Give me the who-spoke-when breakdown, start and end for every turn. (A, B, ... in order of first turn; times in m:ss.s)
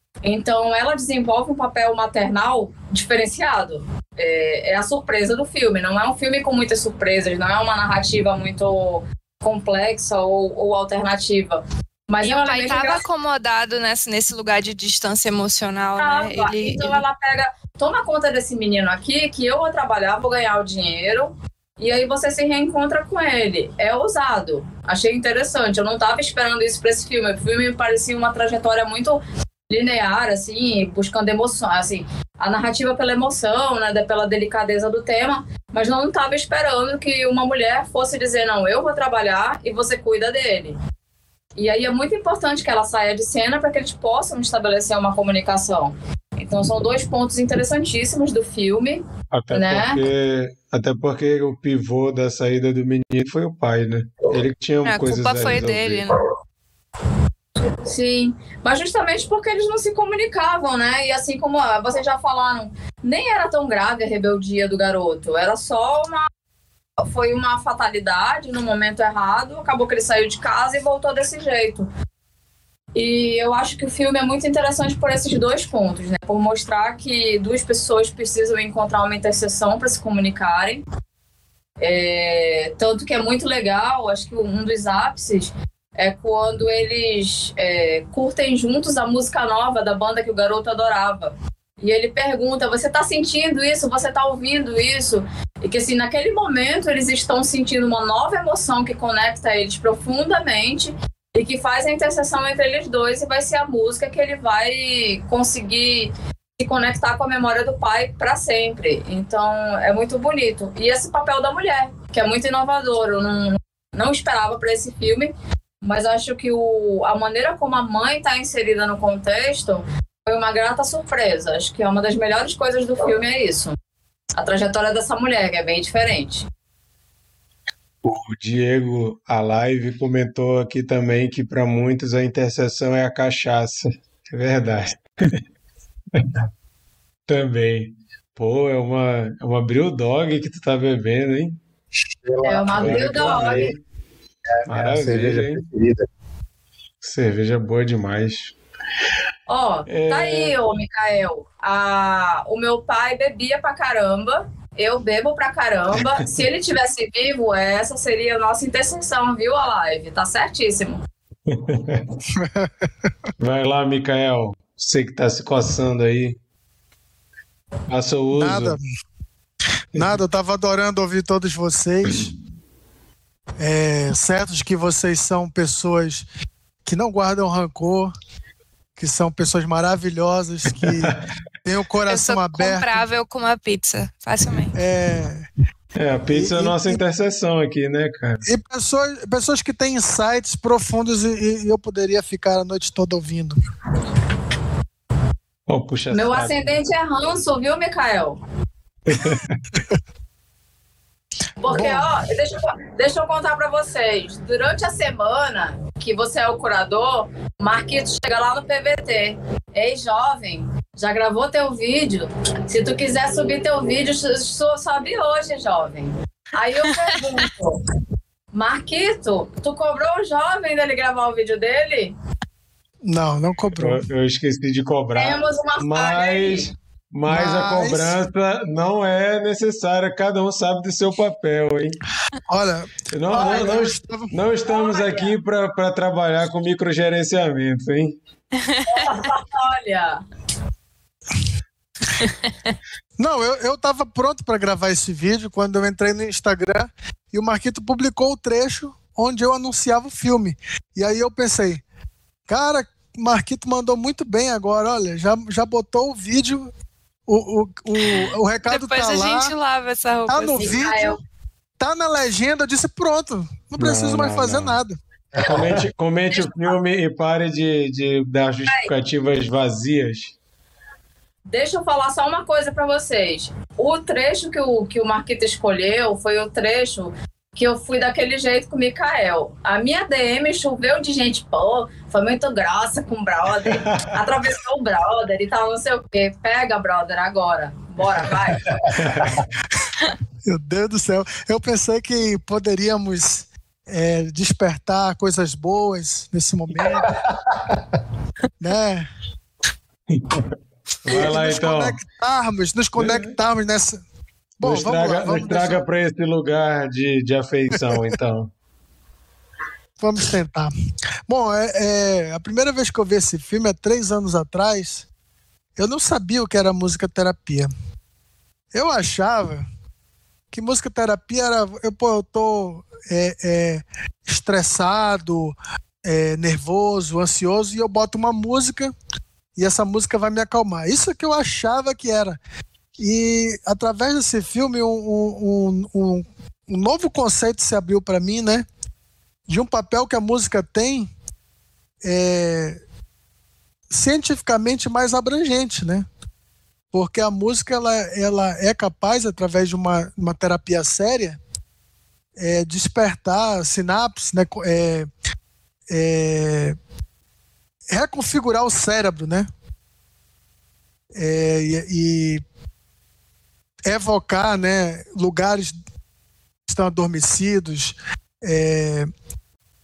0:00.2-0:13.0 A
0:12.2-0:17.0 B
0:16.0-0:40.8 A
0:41.6-0:50.0 A
0:49.3-0:56.1 C
0:54.8-0:56.2 B
0:57.8-1:06.3 A
1:07.0-1:11.9 A
1:12.9-1:20.8 A
1:21.8-2:03.8 A
2:04.3-2:06.5 A
2:08.0-2:15.4 C
2:17.3-2:21.6 C
2:22.2-2:23.7 D
2:22.4-2:23.7 A
2:22.7-2:23.8 C
2:24.5-2:26.0 D
2:24.7-2:25.6 C
2:27.0-2:28.5 C
2:29.5-2:41.0 A
2:29.9-2:30.5 C
2:36.0-2:36.4 C
2:41.5-2:42.1 C
2:42.3-2:42.7 E
2:43.4-2:46.4 C
2:47.9-2:48.8 C
2:48.3-2:48.8 E
2:49.9-2:52.3 E
2:53.6-2:56.2 E
2:56.8-2:58.1 E
2:59.0-3:03.0 E
3:00.7-3:01.2 C
3:02.1-3:04.8 B
3:04.7-3:05.5 E
3:06.0-3:08.4 C
3:06.3-3:07.0 E
3:08.4-3:13.6 E
3:15.7-3:16.7 C
3:16.1-3:18.4 A
3:19.1-3:19.6 C
3:21.6-3:37.8 A
3:21.7-3:22.1 E
3:36.8-3:37.4 B
3:38.5-3:42.1 A
3:43.0-3:44.0 E
3:43.7-3:52.0 C
3:45.2-3:46.7 A
3:47.3-3:48.2 E
3:52.5-3:54.3 E
3:53.1-3:58.2 C
3:53.3-3:53.8 A
3:54.6-3:55.3 A
3:58.5-3:59.3 B
3:58.9-4:00.2 A
4:02.2-4:02.7 B
4:03.2-4:11.8 E
4:12.5-4:16.7 E
4:17.3-4:19.5 E
4:18.1-4:20.9 B
4:20.3-4:21.2 E
4:20.6-4:21.2 A
4:21.8-4:25.0 E
4:23.8-4:24.8 C
4:25.3-4:25.8 D
4:25.4-4:30.3 C
4:26.3-4:26.8 A
4:31.5-4:48.7 A
4:43.7-4:44.1 C
4:48.9-4:49.3 C
4:49.1-4:49.4 D
4:50.5-4:57.1 E
4:56.8-4:57.8 D
4:58.6-4:59.1 E
5:00.1-5:00.4 C
5:01.0-5:02.0 C
5:01.0-5:04.0 E
5:03.0-5:03.4 C
5:04.6-5:05.8 E
5:04.6-5:08.5 C
5:10.0-5:10.7 E
5:11.3-5:15.0 E
5:15.8-5:17.7 E
5:18.7-5:19.6 E
5:20.5-5:28.9 E
5:29.6-5:32.4 E
5:33.0-5:38.7 E
5:39.5-5:41.1 E
5:42.0-5:42.8 E
5:43.9-5:46.0 E
5:46.9-5:51.4 E
5:52.4-5:55.1 E
5:55.9-5:56.8 E
5:57.9-5:59.5 E
6:01.1-6:02.4 E
6:03.9-6:05.7 E
6:06.7-6:09.1 E